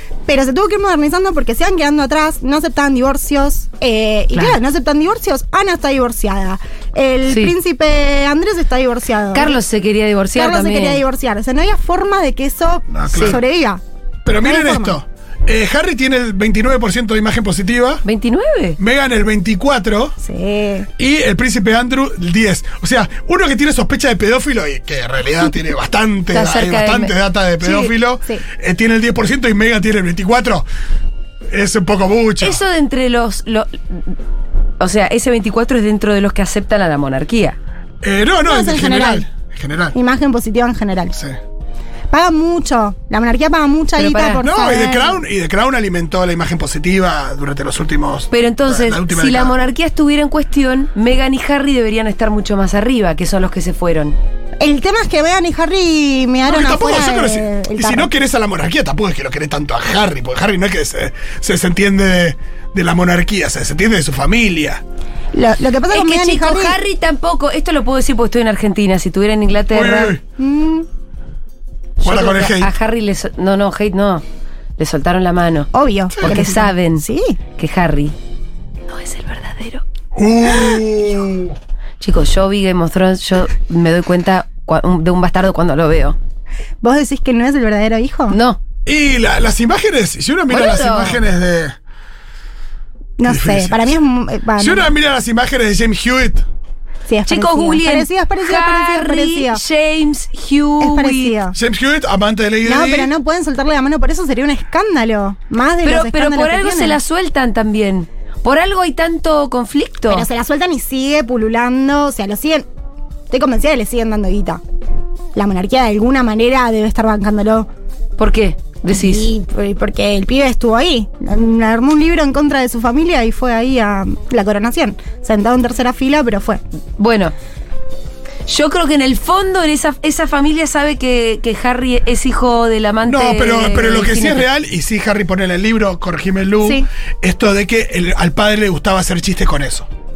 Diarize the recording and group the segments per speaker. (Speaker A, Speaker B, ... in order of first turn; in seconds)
Speaker A: 0.3-9.6, 10.3-13.8, 14.4-15.0, 20.2-20.9, 38.4-39.2, 39.9-41.2, 42.1-45.2, 54.6-58.1, 65.3-66.8, 70.4-70.8, 75.7-77.4, 86.8-88.4, 93.2-94.9, 97.1-99.6, 100.8-101.6, 102.6-107.0, 110.1-112.7, 113.3-114.6, 115.3-117.7, 118.9-126.6
Speaker B: 7.3-7.5, 9.3-11.0, 13.1-13.4, 18.0-18.8, 26.3-27.9, 32.4-34.2, 34.8-37.6, 44.0-44.4, 48.3-54.1, 65.9-70.2, 72.0-74.2, 74.8-75.7, 76.2-77.0, 77.6-78.1, 78.9-79.8, 82.0-86.2, 88.3-88.6, 90.5-91.2, 97.3-101.3, 105.8-110.3, 118.2-119.3, 127.0-127.3, 128.4-134.5
Speaker C: 12.9-13.4, 14.2-18.0, 18.8-20.1, 21.0-30.6, 31.5-32.6, 38.0-40.0, 44.4-49.5, 56.5-64.8, 69.7-70.2, 72.0-72.7, 76.1-76.4, 80.1-81.5, 88.8-91.8, 93.2-93.9, 94.6-96.4, 101.5-103.1, 133.1-139.9